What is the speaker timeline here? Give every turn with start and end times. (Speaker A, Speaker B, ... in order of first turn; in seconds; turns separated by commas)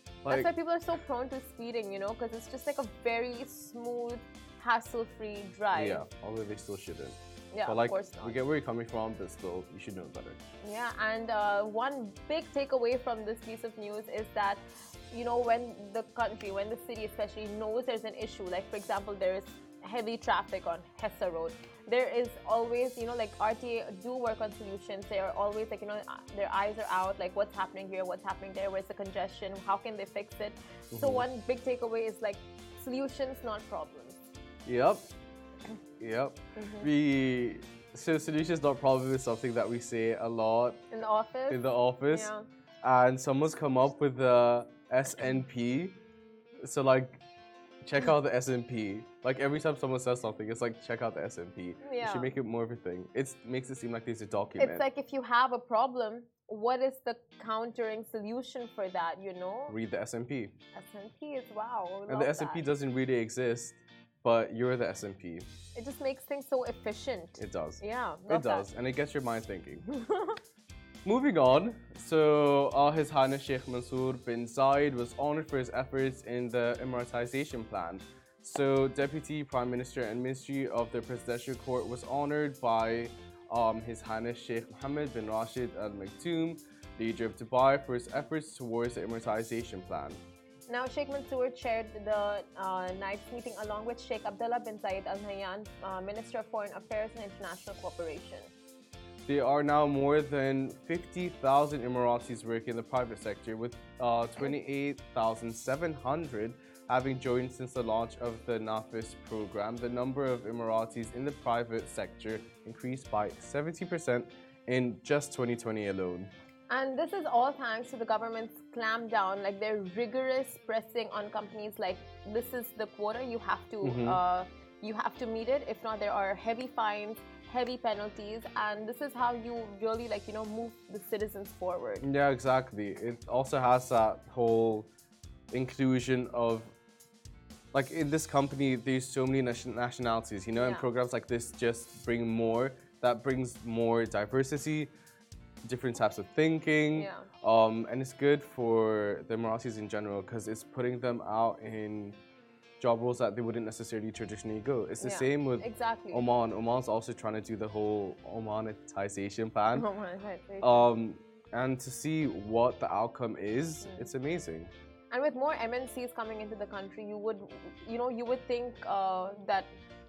Speaker A: 0.2-0.5, Speaker B: 0.3-6.0, Speaker A: 5.7-10.4, Speaker B: 7.5-8.4, Speaker B: 10.6-34.2, Speaker A: 30.9-31.3, Speaker A: 34.7-35.1, Speaker A: 36.0-40.8, Speaker B: 36.6-36.9, Speaker B: 40.9-42.5, Speaker A: 41.5-46.0, Speaker A: 46.6-47.2, Speaker A: 47.8-54.8, Speaker B: 51.8-52.3, Speaker B: 54.6-59.8, Speaker A: 59.7-60.5, Speaker B: 60.8-62.6, Speaker A: 62.1-65.5, Speaker B: 65.8-68.7, Speaker A: 67.4-69.8, Speaker B: 69.9-70.4, Speaker A: 71.0-90.2, Speaker B: 90.7-98.5, Speaker A: 99.3-116.3, Speaker B: 116.7-132.1, Speaker A: 123.8-124.2, Speaker A: 132.0-134.9, Speaker A: 135.5-136.7, Speaker A: 137.7-144.9, Speaker B: 140.6-140.9, Speaker A: 145.7-152.2, Speaker B: 147.0-147.3, Speaker A: 152.8-159.9, Speaker B: 155.0-156.2, Speaker B: 159.8-160.9, Speaker A: 160.6-164.7, Speaker B: 163.8-164.1, Speaker B: 165.1-169.7